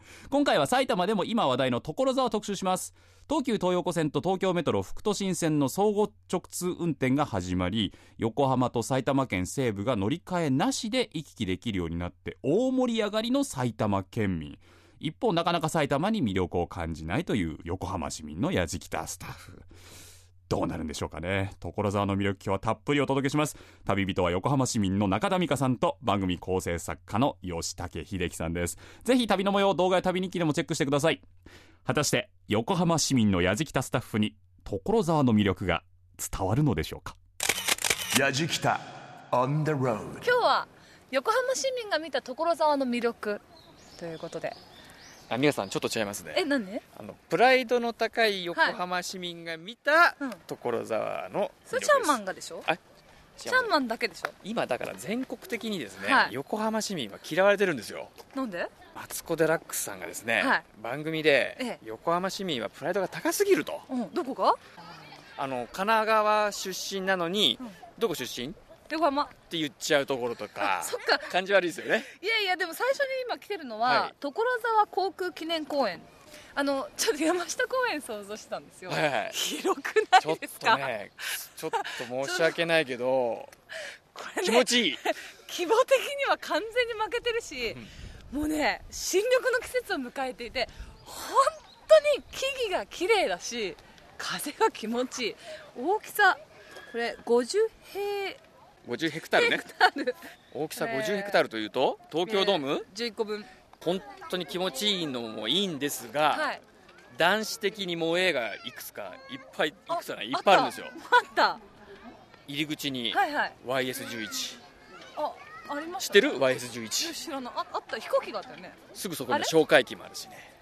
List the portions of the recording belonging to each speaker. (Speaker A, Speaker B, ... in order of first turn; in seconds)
Speaker A: 0.3-19.7, 20.5-31.2, 31.8-37.2
Speaker B: 38.1-40.3
Speaker C: 40.2-43.4, 44.0-44.6, 46.3-46.8, 51.7-52.7, 53.5-54.3, 56.0-56.3, 58.3-58.7, 63.9-64.6, 68.9-69.3, 70.6-71.3, 72.2-80.9, 81.9-82.5, 84.1-87.8, 88.3-98.4, 99.4-100.2, 100.8-101.4, 102.2-103.5, 106.3-106.6, 109.9-111.6, 113.1-113.5, 115.2-116.5, 117.0-118.8
Speaker D: 45.3-46.4, 47.0-52.8, 53.4-53.7, 54.4-58.1, 58.9-63.9, 65.4-68.5, 69.5-72.1, 73.8-74.1, 78.9-79.4, 80.2-83.5, 84.4-85.0, 98.8-99.7, 100.5-102.9, 103.8-106.5, 107.1-110.9, 112.5-114.6, 116.1-117.1, 118.9-120.5